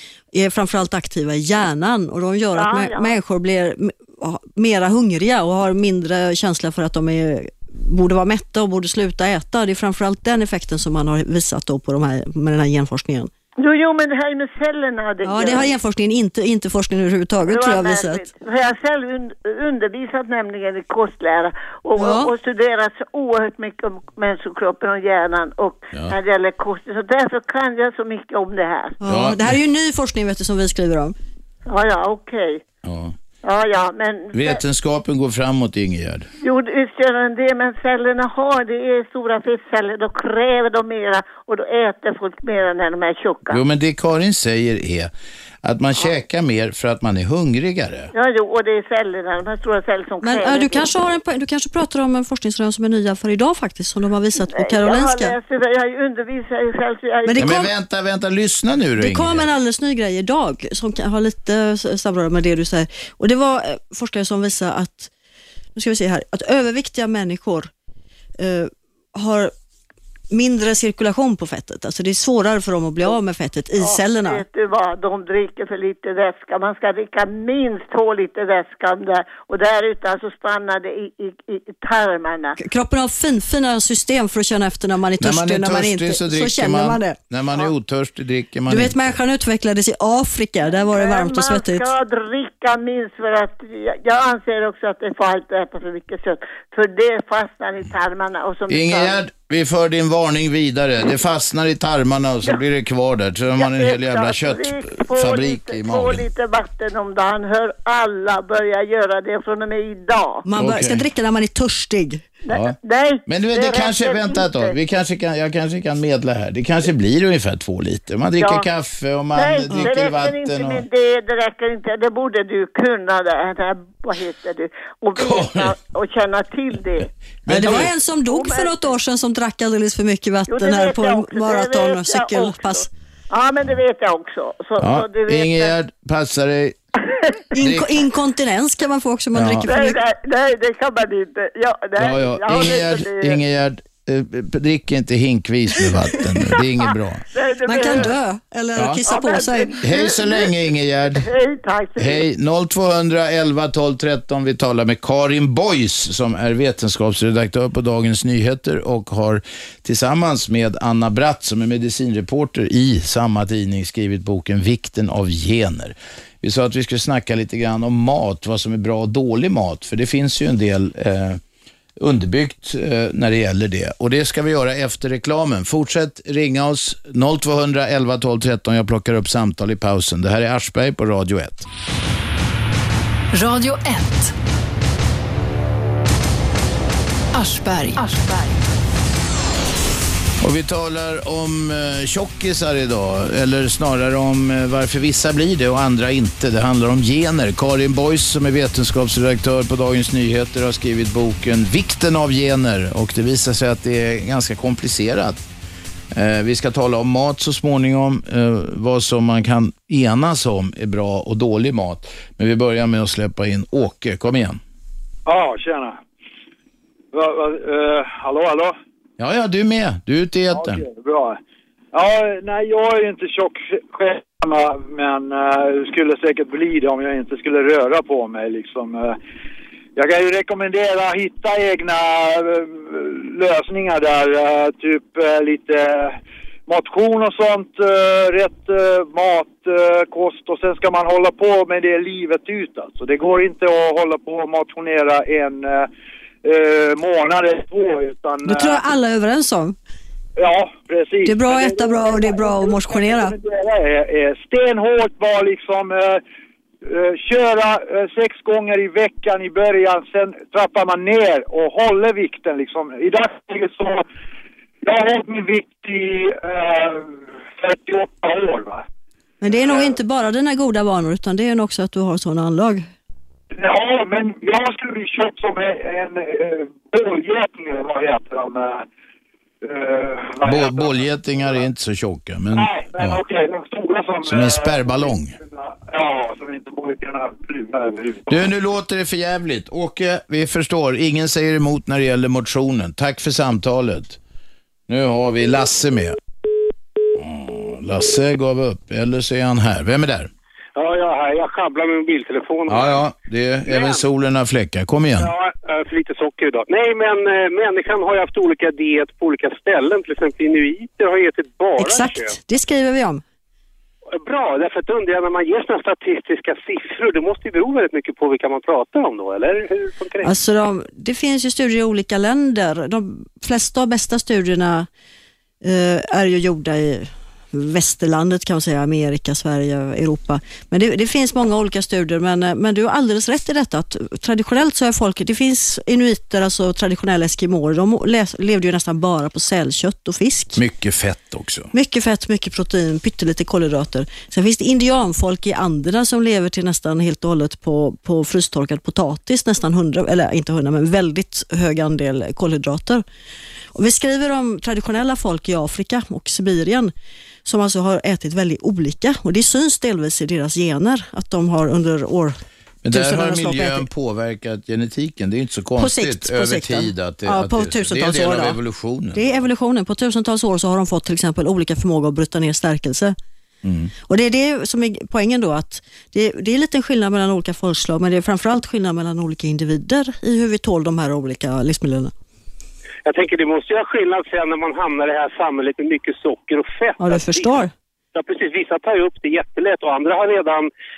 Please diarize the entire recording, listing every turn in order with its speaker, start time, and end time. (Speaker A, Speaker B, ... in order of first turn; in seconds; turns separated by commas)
Speaker A: 0.3-13.3, Speaker B: 2.5-3.2, Speaker B: 13.6-15.7, Speaker A: 15.2-18.3, Speaker B: 17.5-29.0, Speaker A: 22.0-22.3, Speaker A: 29.0-31.2, Speaker C: 29.1-29.6, Speaker B: 31.7-32.6, Speaker C: 32.9-33.1, Speaker B: 33.4-34.6, Speaker C: 34.3-36.3, Speaker B: 36.4-43.6, Speaker C: 43.5-45.1, Speaker C: 45.6-48.1, Speaker B: 48.1-50.9, Speaker A: 50.2-55.4, Speaker B: 54.5-57.5, Speaker A: 57.3-57.7, Speaker C: 57.4-59.5, Speaker A: 59.0-65.1, Speaker A: 65.8-67.7, Speaker A: 68.4-69.5, Speaker A: 70.3-74.4, Speaker B: 73.8-82.6, Speaker A: 82.6-87.2, Speaker C: 85.2-89.2, Speaker A: 88.7-91.9, Speaker B: 90.7-99.2, Speaker C: 98.7-106.3, Speaker B: 103.6-110.5, Speaker A: 110.5-112.3, Speaker C: 110.6-111.0, Speaker B: 112.5-114.7, Speaker C: 113.3-120.8, Speaker B: 118.4-118.7, Speaker B: 119.3-127.1, Speaker C: 125.2-125.7, Speaker C: 127.5-127.9, Speaker A: 127.5-132.9, Speaker B: 128.3-128.8, Speaker B: 130.5-135.7, Speaker C: 134.8-136.8, Speaker B: 137.0-137.4, Speaker A: 137.6-140.0, Speaker C: 137.6-137.9, Speaker C: 139.3-139.7, Speaker B: 139.7-143.4, Speaker C: 142.0-147.2, Speaker B: 147.3-148.1, Speaker A: 147.6-149.8, Speaker C: 147.8-148.1, Speaker C: 148.8-149.1, Speaker B: 149.0-150.5, Speaker C: 149.8-151.3, Speaker B: 151.1-152.2, Speaker C: 152.0-171.4, Speaker C: 172.0-181.7, Speaker D: 183.3-184.3, Speaker D: 187.3-188.8, Speaker C: 190.4-205.5, Speaker C: 206.1-214.6, Speaker E: 215.3-216.0, Speaker E: 217.1-218.8, Speaker C: 219.2-220.8, Speaker E: 220.5-221.4, Speaker E: 221.9-229.2, Speaker E: 230.0-245.9, Speaker E: 246.4-248.8, Speaker A: 248.4-249.8, Speaker E: 250.4-256.2, Speaker A: 251.2-253.3, Speaker E: 256.8-264.1, Speaker E: 264.8-268.9, Speaker A: 269.4-272.9, Speaker E: 269.6-270.0, Speaker E: 273.5-278.9, Speaker E: 279.6-281.6, Speaker C: 280.4-283.2, Speaker E: 282.5-288.5, Speaker C: 284.3-285.4, Speaker C: 288.3-294.2, Speaker C: 294.9-296.2, Speaker C: 297.2-300.3, Speaker F: 300.8-302.9, Speaker C: 302.7-305.3, Speaker F: 303.7-304.0, Speaker F: 305.2-312.4, Speaker A: 311.8-313.2, Speaker F: 314.2-320.3, Speaker A: 320.2-324.9, Speaker A: 325.6-340.6, Speaker C: 340.6-341.7, Speaker A: 341.7-353.0, Speaker A: 353.8-356.9, Speaker A: 357.4-362.4, Speaker C: 362.8-369.3, Speaker A: 362.9-363.9, Speaker A: 365.8-368.6, Speaker A: 369.1-373.1, Speaker C: 373.6-373.9, Speaker A: 374.1-382.1, Speaker F: 383.1-390.7, Speaker A: 387.0-387.7